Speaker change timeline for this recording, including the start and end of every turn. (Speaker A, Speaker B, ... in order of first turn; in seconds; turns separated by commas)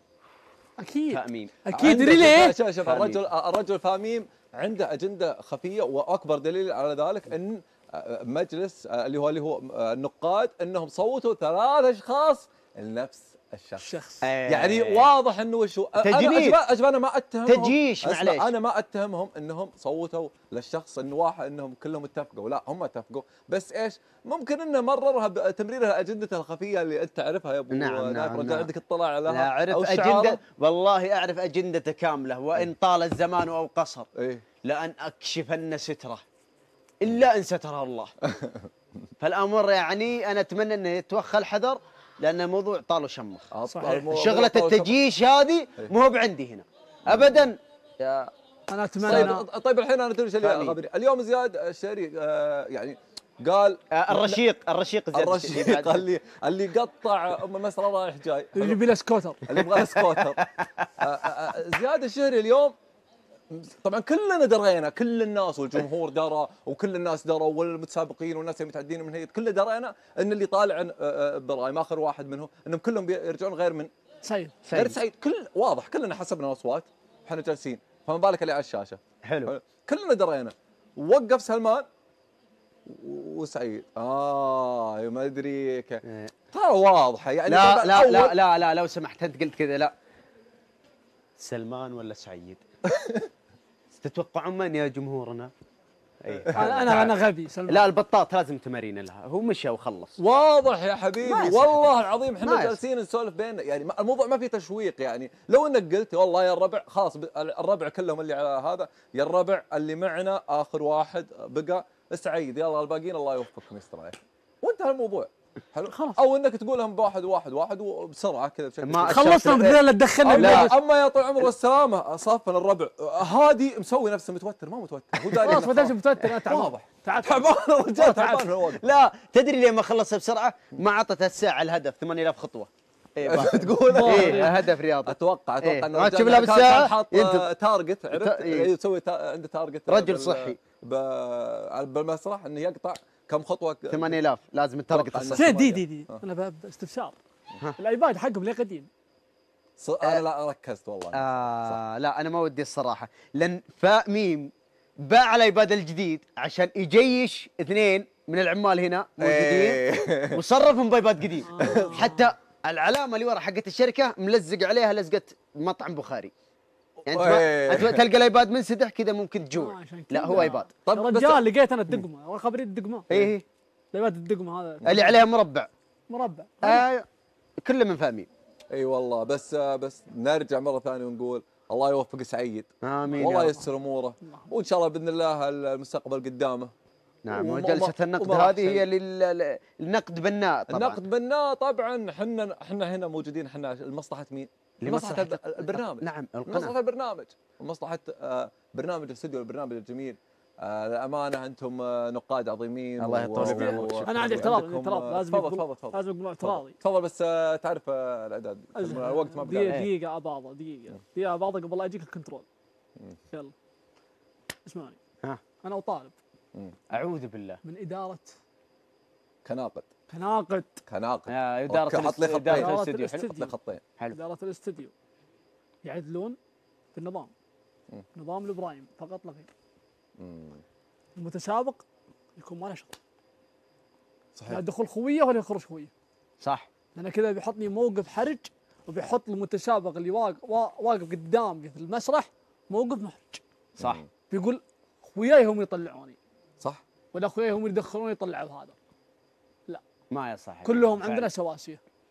Speaker A: 0.8-2.6, Speaker B: 1.1-1.6, Speaker C: 1.7-13.9, Speaker B: 2.8-3.2, Speaker A: 13.8-14.2, Speaker B: 14.2-15.1, Speaker C: 14.5-30.4, Speaker B: 16.0-16.6, Speaker B: 17.4-18.5, Speaker B: 27.7-28.7, Speaker B: 29.3-34.1, Speaker C: 34.2-34.4, Speaker B: 34.6-36.2, Speaker B: 37.0-38.1, Speaker C: 38.3-38.7, Speaker B: 39.2-43.5, Speaker C: 43.5-45.0, Speaker A: 43.7-44.1, Speaker B: 44.1-48.3, Speaker C: 47.1-47.4, Speaker A: 48.7-49.5, Speaker C: 49.0-54.4, Speaker B: 49.1-49.3, Speaker B: 50.4-50.8, Speaker B: 53.9-56.0, Speaker C: 55.1-58.8, Speaker A: 58.5-59.4, Speaker C: 59.4-60.5, Speaker B: 59.5-60.9, Speaker C: 61.0-62.7, Speaker C: 63.5-73.9, Speaker A: 74.2-74.6, Speaker B: 74.7-75.0, Speaker C: 74.7-81.8, Speaker B: 79.2-79.5, Speaker C: 82.9-86.0, Speaker B: 86.0-86.3, Speaker C: 86.5-88.4, Speaker B: 87.5-89.9, Speaker B: 91.4-92.6, Speaker C: 92.9-93.3, Speaker B: 93.9-95.5, Speaker B: 96.2-97.1, Speaker C: 96.4-97.1, Speaker A: 96.5-97.9, Speaker B: 97.7-100.2, Speaker C: 100.2-128.8, Speaker B: 101.2-102.8, Speaker A: 115.9-116.2, Speaker B: 118.8-119.8, Speaker A: 119.1-120.7, Speaker B: 120.3-120.7, Speaker A: 125.3-128.5, Speaker B: 128.7-137.5, Speaker C: 133.2-144.2, Speaker A: 133.9-134.5, Speaker B: 138.1-138.7, Speaker B: 139.9-140.6, Speaker B: 143.9-145.5, Speaker C: 144.9-146.2, Speaker A: 145.3-147.2, Speaker A: 147.8-148.9, Speaker C: 149.8-151.8, Speaker B: 151.1-154.5, Speaker B: 155.0-166.3, Speaker C: 159.2-160.4, Speaker A: 161.5-162.3, Speaker C: 161.6-162.1, Speaker C: 167.0-168.0, Speaker B: 167.1-170.7, Speaker A: 169.5-173.1, Speaker C: 170.8-171.4, Speaker B: 173.1-173.4, Speaker A: 173.9-175.2, Speaker B: 174.8-175.7, Speaker A: 176.1-176.8, Speaker B: 176.6-177.1, Speaker B: 177.6-178.3, Speaker C: 178.7-186.7, Speaker B: 182.8-183.6, Speaker A: 183.2-183.4, Speaker A: 184.2-184.5, Speaker B: 187.2-191.0, Speaker C: 187.3-188.9, Speaker C: 190.7-209.9, Speaker B: 194.8-196.7, Speaker B: 203.0-204.6, Speaker A: 203.5-206.8, Speaker A: 208.8-212.4, Speaker A: 214.7-215.0, Speaker A: 215.6-216.2, Speaker B: 216.9-217.6, Speaker A: 217.6-218.3, Speaker C: 219.4-219.9, Speaker A: 220.1-220.8, Speaker C: 220.9-223.8, Speaker B: 221.3-223.2, Speaker A: 222.5-223.5, Speaker A: 224.1-224.9, Speaker A: 225.8-226.4, Speaker A: 226.9-227.3, Speaker A: 228.1-229.5, Speaker C: 230.2-230.6, Speaker A: 231.2-231.8, Speaker A: 232.3-232.9, Speaker C: 234.3-234.6, Speaker A: 234.5-235.9, Speaker B: 236.4-236.7, Speaker A: 236.9-243.4, Speaker C: 243.8-244.1, Speaker A: 244.3-246.2, Speaker A: 247.1-248.7, Speaker B: 250.1-251.3, Speaker A: 250.6-251.8